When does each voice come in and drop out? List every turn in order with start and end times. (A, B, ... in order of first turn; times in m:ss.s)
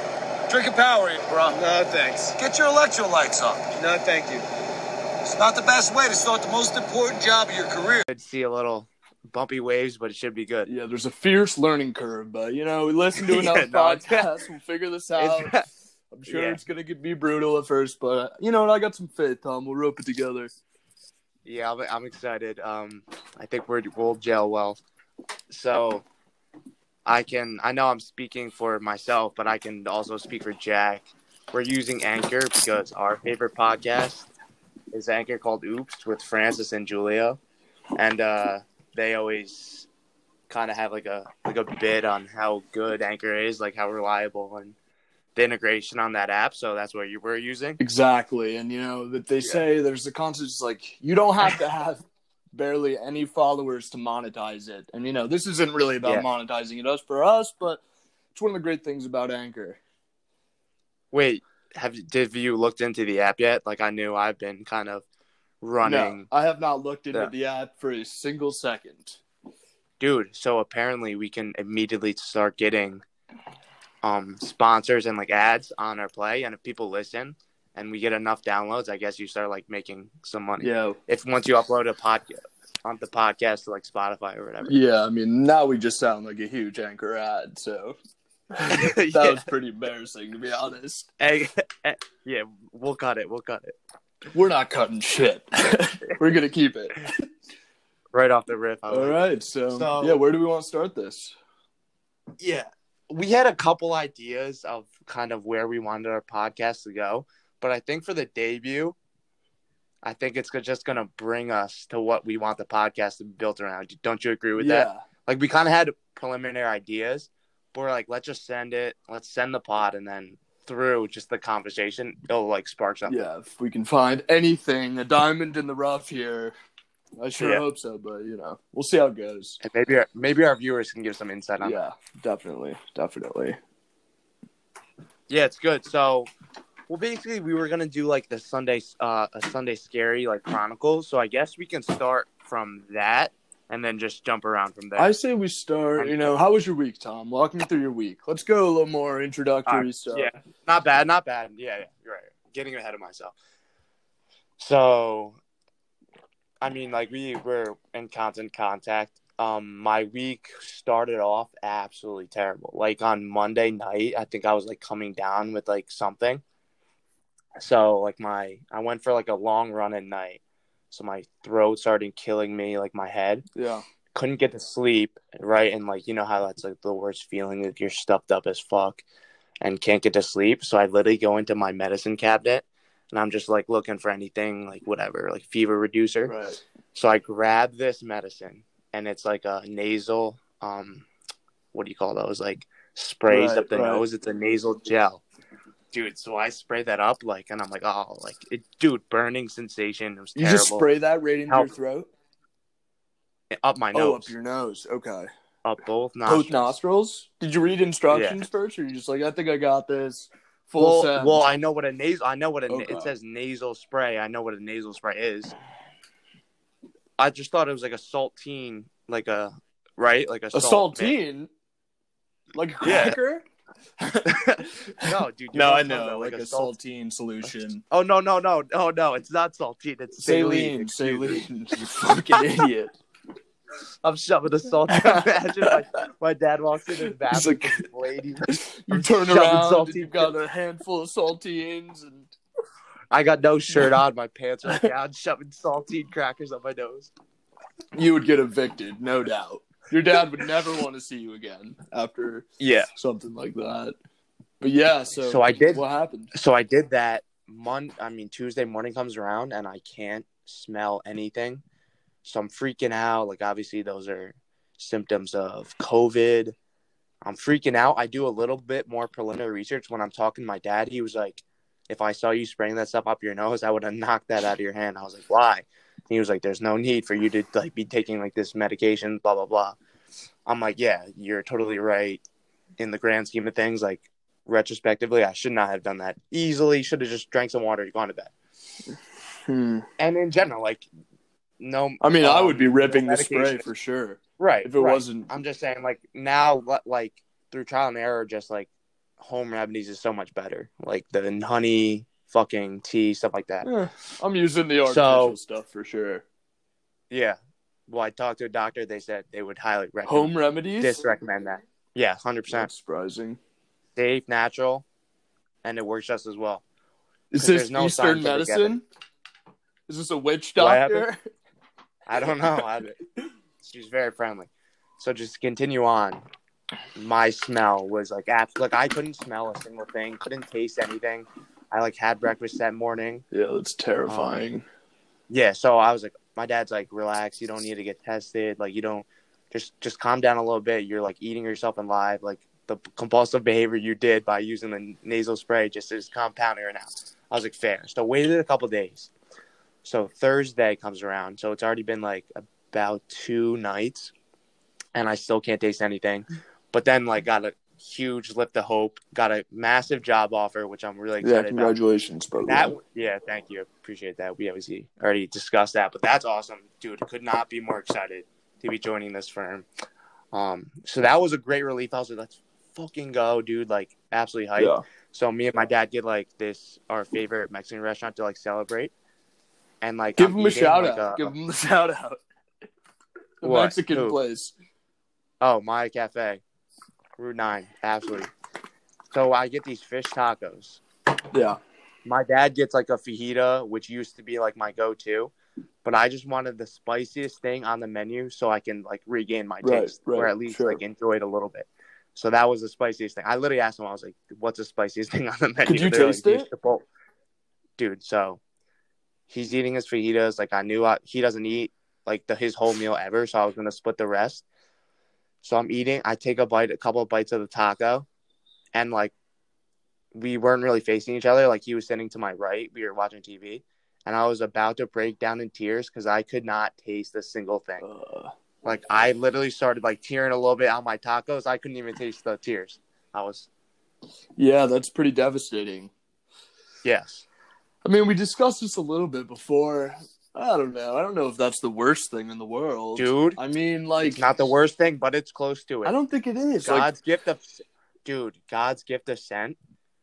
0:00.5-0:04.4 A
0:05.2-0:08.0 A
0:08.1-0:10.7 B
0:10.6-0:15.5 C
0:13.2-0:14.3 B
0:15.2-0:15.6 B
0:16.1-0:20.5 C
0:16.3-0:16.6 B
0:21.4-0:24.8 B
0:25.5-0:26.0 B
0:27.0-0:34.3 B
0:34.9-0:37.4 B
0:37.9-0:39.9 B
0:40.5-0:44.8 B
0:45.4-0:47.8 B
0:47.8-0:52.0 C
0:52.5-0:57.8 C
0:58.3-0:59.8 C
1:01.1-1:05.0 B
1:05.6-1:06.3 B
1:05.8-1:09.2 C
1:10.0-1:13.0 B
1:14.0-1:24.8 B
1:20.6-1:21.0 C
1:24.6-1:28.0 C
1:28.6-1:31.1 C
1:28.6-1:29.5 B
1:31.2-1:33.8 B
1:34.3-1:37.1 C
1:38.1-1:39.2 B
1:38.9-1:41.3 C
1:39.7-1:40.2 B
1:42.4-1:49.0 B
1:50.0-2:03.2 B
1:54.6-1:55.0 C
2:03.1-2:06.5 C
2:07.2-2:09.6 C
2:07.4-2:07.6 B
2:09.6-2:11.8 B
2:11.6-2:13.6 C
2:15.3-2:16.3 B
2:16.9-2:25.1 B
2:25.0-2:30.3 C
2:26.0-2:26.4 B
2:29.7-2:33.3 B
2:34.6-2:35.4 B
2:36.6-2:46.4 B
2:47.6-2:53.4 B
2:53.5-2:53.8 C
2:54.1-2:59.0 B
2:59.6-3:06.3 B
3:06.3-3:06.6 C
3:06.9-3:11.1 B
3:11.7-3:15.2 B
3:13.3-3:14.0 C
3:15.9-3:20.9 B
3:20.4-3:22.1 C
3:23.5-3:24.3 B
3:23.9-3:25.3 C
3:25.6-3:26.6 B
3:26.2-3:31.4 C
3:28.1-3:28.4 B
3:30.8-3:35.5 B
3:32.7-3:33.1 C
3:37.2-3:41.2 B
3:40.5-3:41.5 C
3:42.5-3:43.4 C
3:42.8-3:43.2 B
3:44.0-3:47.8 C
3:45.0-3:46.7 B
3:47.9-3:51.4 B
3:50.2-3:53.0 C
3:54.0-4:00.3 B
3:54.9-3:55.8 C
3:57.3-3:57.8 C
3:58.4-4:02.3 C
4:03.1-4:07.1 B
4:07.9-4:13.9 C
4:12.6-4:12.9 B
4:14.6-4:16.3 C
4:15.2-4:21.6 B
4:22.2-4:26.5 B
4:27.2-4:39.8 B
4:40.4-4:42.2 B
4:42.8-4:48.3 B
4:49.5-4:49.8 C
4:50.0-4:50.8 B
4:51.6-4:53.6 B
4:52.0-4:55.3 C
4:54.4-5:03.7 B
5:03.6-5:06.2 C
5:04.8-5:05.4 B
5:07.1-5:12.7 B
5:10.0-5:11.0 C
5:12.5-5:13.4 C
5:14.0-5:14.8 B
5:15.6-5:16.6 B
5:17.3-5:18.8 C
5:17.4-5:18.8 B
5:19.9-5:21.2 C
5:20.6-5:21.1 B
5:22.1-5:23.0 B
5:23.6-5:26.2 B
5:27.0-5:33.2 B
5:33.3-5:34.6 C
5:34.1-5:34.4 B
5:35.3-5:49.1 B
5:49.8-5:54.1 B
5:54.9-6:01.8 B
6:01.2-6:02.7 C
6:02.4-6:09.6 B
6:10.3-6:18.9 B
6:14.6-6:14.8 C
6:19.8-6:21.3 B
6:20.2-6:22.2 C
6:23.4-6:24.5 C
6:23.4-6:24.2 B
6:25.4-6:26.4 B
6:27.2-6:28.3 B
6:29.1-6:30.8 B
6:31.3-6:31.6 C
6:32.0-6:35.3 B
6:35.8-6:46.8 B
6:39.6-6:40.8 C
6:45.7-6:46.5 C
6:47.8-6:48.4 B
6:49.3-6:54.4 B
6:55.4-6:58.1 B
6:58.7-6:59.1 B
7:00.1-7:07.8 B
7:07.8-7:08.3 C
7:08.6-7:13.5 B
7:14.4-7:15.9 C
7:16.8-7:17.2 B
7:17.8-7:24.2 C
7:23.0-7:23.4 B
7:24.0-7:25.9 B
7:25.8-7:26.9 C
7:26.6-7:29.6 B